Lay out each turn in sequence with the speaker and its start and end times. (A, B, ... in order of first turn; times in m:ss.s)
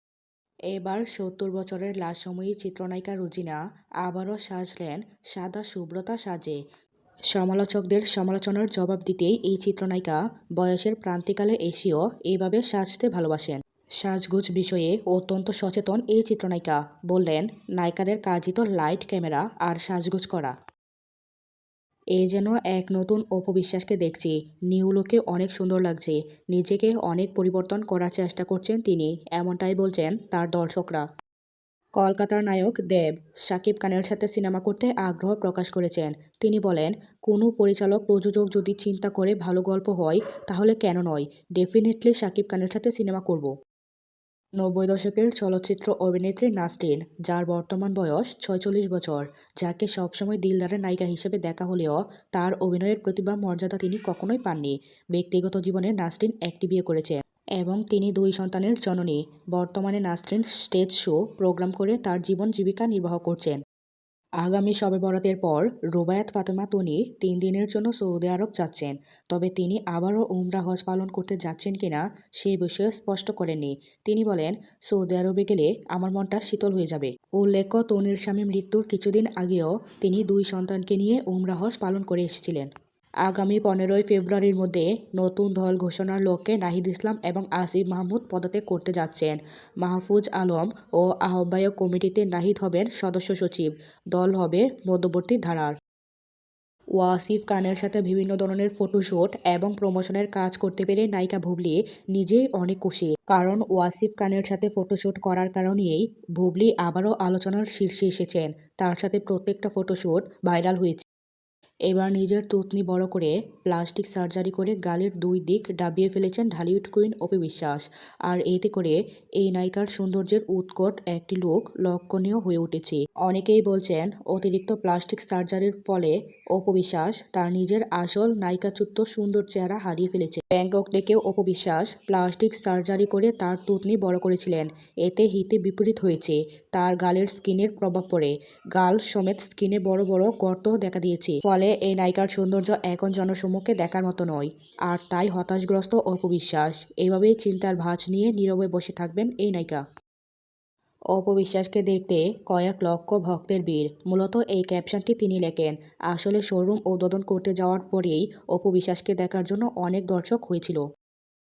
0:00.7-0:06.6 A
0:07.3-0:20.5 A
0:22.2-0:31.0 A
0:32.0-0:43.5 A
0:44.6-1:03.6 A
1:04.4-1:22.7 A
1:23.2-1:35.7 A
1:37.0-1:51.0 A
1:51.9-2:29.8 A
2:31.1-2:40.8 A